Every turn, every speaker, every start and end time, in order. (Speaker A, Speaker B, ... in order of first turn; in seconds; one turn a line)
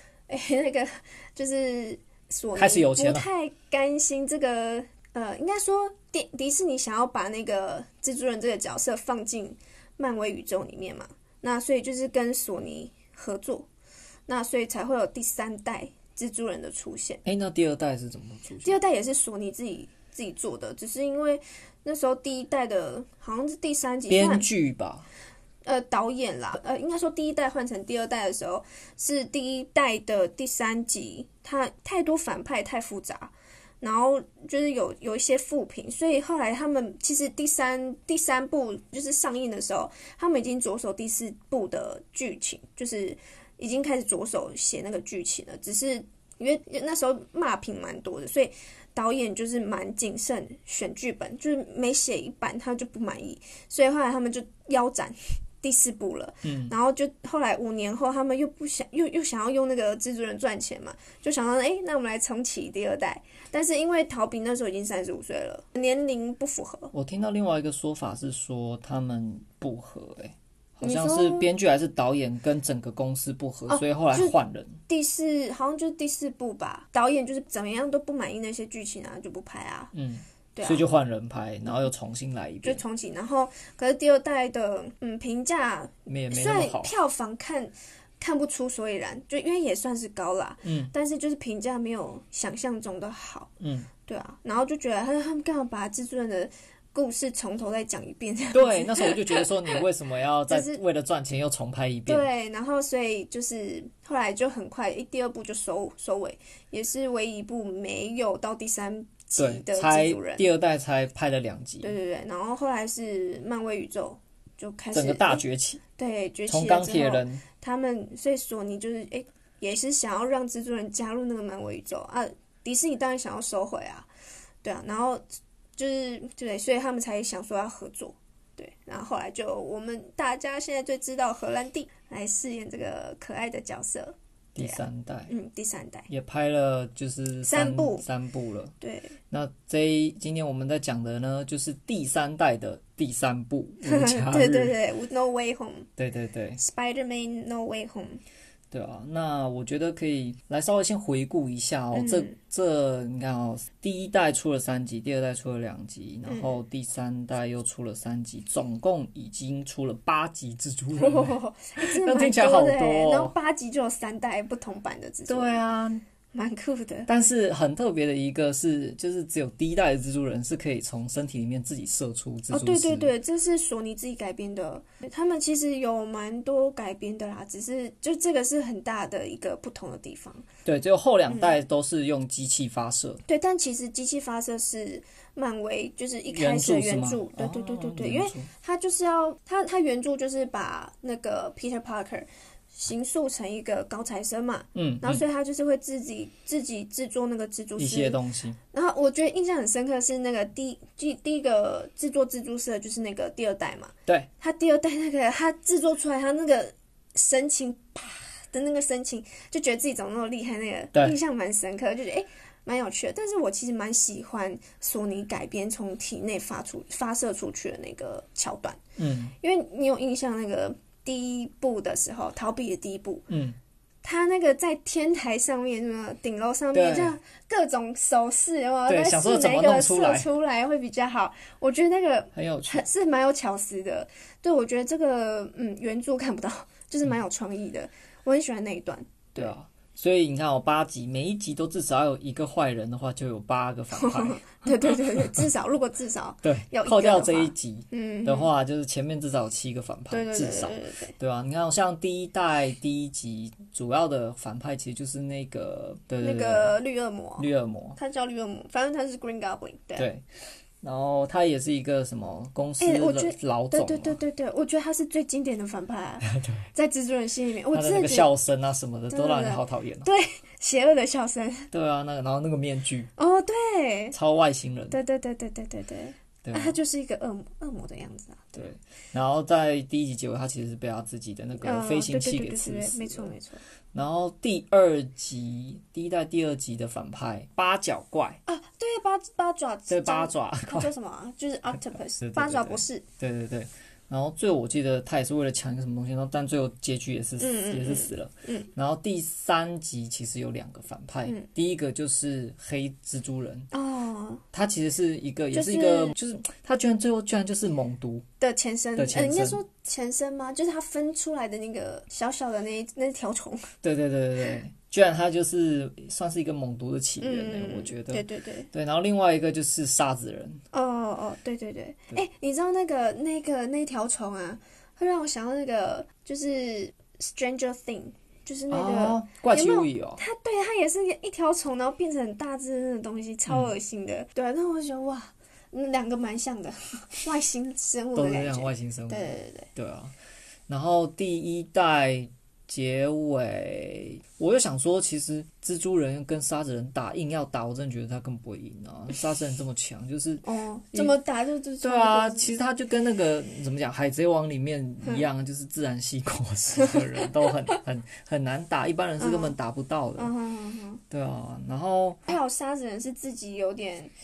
Speaker A: 0.3-13.7
Speaker B: 2.5-3.3
Speaker A: 14.3-17.2
Speaker B: 17.2-18.8
Speaker A: 18.6-24.5
Speaker B: 24.1-25.1
Speaker A: 25.7-66.9
Speaker B: 56.4-56.7
Speaker B: 66.9-74.8
Speaker A: 70.8-71.5
Speaker A: 73.7-74.4
Speaker A: 74.9-79.9
Speaker B: 79.9-82.8
Speaker A: 80.5-80.8
Speaker A: 82.6-93.5
Speaker B: 86.1-86.9
Speaker B: 90.6-90.9
Speaker B: 93.6-93.9
Speaker A: 94.1-99.8
Speaker B: 98.5-102.3
Speaker A: 100.5-100.8
Speaker A: 102.1-110.5
Speaker B: 109.4-111.9
Speaker A: 111.8-115.4
Speaker B: 114.9-115.8
Speaker A: 116.0-124.1
Speaker B: 116.5-117.4
Speaker A: 124.6-125.2
Speaker A: 125.8-136.1
Speaker B: 134.6-135.3
Speaker B: 136.1-138.8
Speaker A: 137.4-138.0
Speaker A: 138.8-139.2
Speaker B: 139.3-144.8
Speaker A: 143.8-145.9
Speaker B: 146.0-146.6
Speaker A: 146.6-148.2
Speaker B: 148.7-163.3
Speaker A: 151.9-152.4
Speaker A: 156.3-156.6
Speaker A: 160.9-165.6
Speaker B: 165.3-166.0
Speaker A: 166.3-167.1
Speaker B: 167.1-173.1
Speaker A: 172.5-180.5
Speaker B: 180.7-183.2
Speaker A: 181.3-181.6
Speaker A: 183.3-198.2
Speaker B: 186.3-188.5
Speaker B: 194.8-195.2
Speaker B: 197.8-198.6
Speaker A: 198.7-218.8
Speaker B: 219.0-219.3
Speaker A: 219.4-223.2
Speaker B: 223.3-223.6
Speaker A: 224.0-239.5
Speaker B: 226.7-227.2
Speaker B: 228.9-230.3
Speaker B: 232.3-232.8
Speaker B: 239.4-245.4
Speaker A: 243.9-248.5
Speaker B: 246.4-256.8
Speaker A: 250.1-251.2
Speaker A: 256.2-260.1
Speaker B: 257.4-258.0
Speaker B: 260.0-260.2
Speaker B: 260.8-264.2
Speaker A: 262.8-268.3
Speaker B: 266.2-266.6
Speaker B: 267.7-270.1
Speaker A: 269.1-271.7
Speaker B: 271.7-273.1
Speaker A: 273.2-274.1
Speaker B: 274.1-275.0
Speaker A: 274.9-278.7
Speaker B: 276.4-276.8
Speaker B: 278.6-283.3
Speaker A: 281.6-283.6
Speaker B: 283.9-288.4
Speaker A: 288.5-293.1
Speaker B: 289.9-290.9
Speaker B: 292.2-303.7
Speaker A: 297.4-298.7
Speaker A: 303.7-304.4
Speaker B: 304.5-308.3
Speaker A: 305.5-306.1
Speaker A: 308.4-313.7
Speaker B: 309.0-309.6
Speaker B: 313.8-320.6
Speaker A: 317.2-318.7
Speaker A: 320.7-339.7
Speaker B: 328.7-330.2
Speaker B: 338.1-340.1
Speaker B: 340.7-351.2
Speaker A: 350.4-352.5
Speaker B: 351.8-360.3
Speaker A: 356.8-357.2
Speaker A: 359.2-359.5
Speaker A: 360.2-361.0
Speaker B: 361.1-362.3
Speaker A: 362.3-364.1